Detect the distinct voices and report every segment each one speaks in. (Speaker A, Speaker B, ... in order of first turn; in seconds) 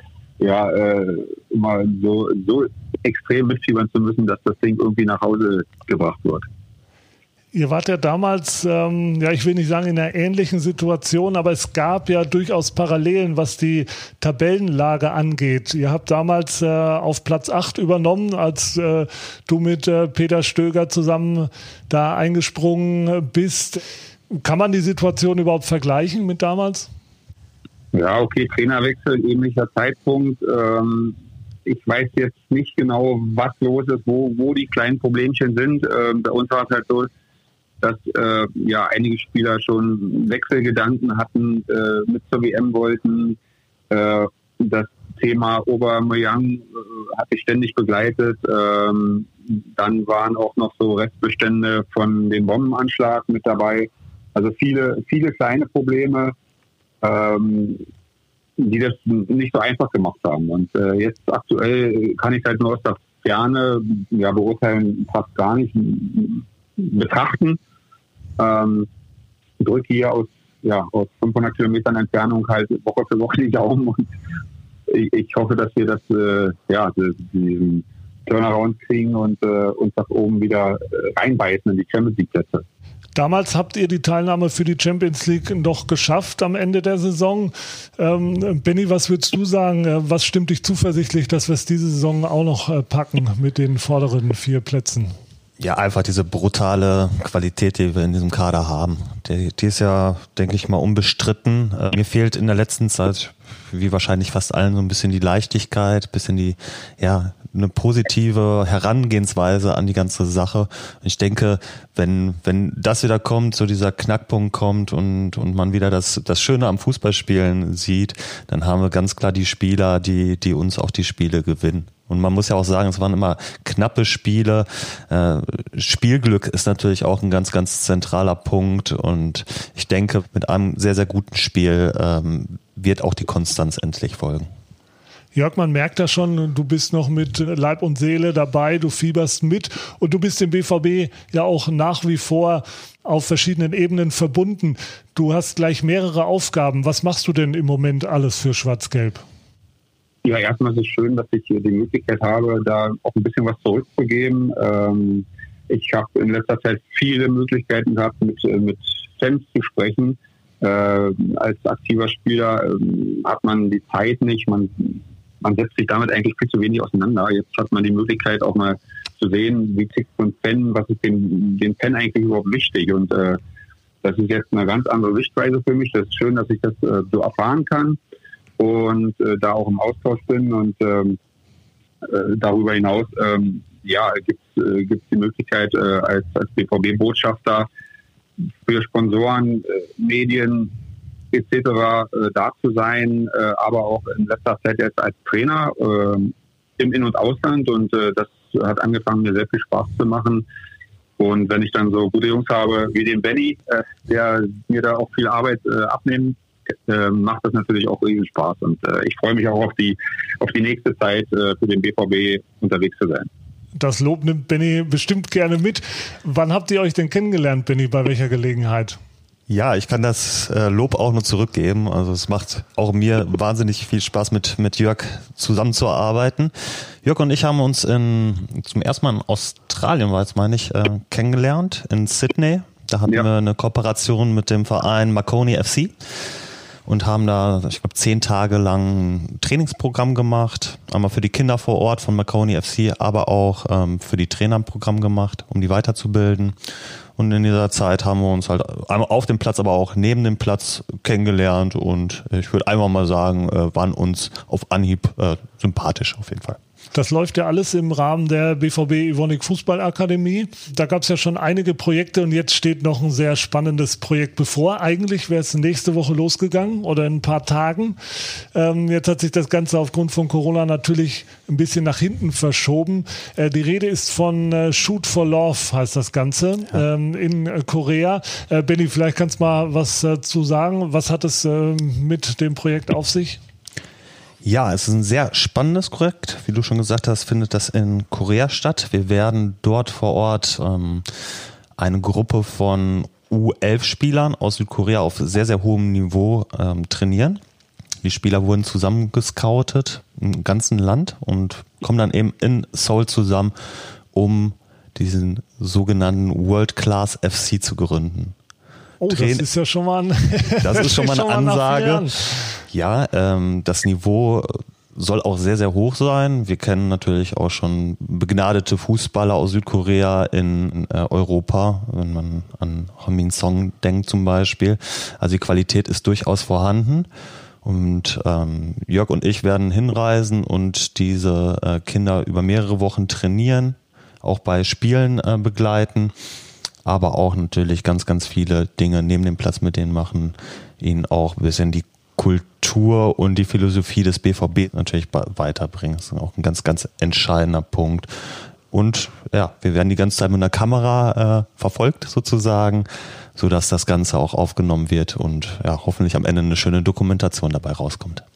Speaker A: 0.4-6.5, 27.9-37.1, 37.8-43.4, 43.9-56.3, 57.0-57.8, 58.6-67.6, 68.4-68.9, 69.6-74.1, 74.9-82.6, 150.2-173.4, 174.0-178.0, 178.6-181.2, 182.0-187.7, 188.6-190.7, 191.3-200.4, 201.2-213.3
Speaker B: 7.5-26.9, 83.1-95.1, 135.3-149.2, 213.7-219.0, 256.9-283.4, 309.0-312.6
Speaker C: 95.6-134.5, 219.5-235.9, 236.8-256.6, 284.4-291.1, 291.8-297.4, 298.0-303.5, 304.1-308.3, 309.1-309.4, 310.6-327.1, 327.6-336.1, 336.8-348.1, 348.7-358.2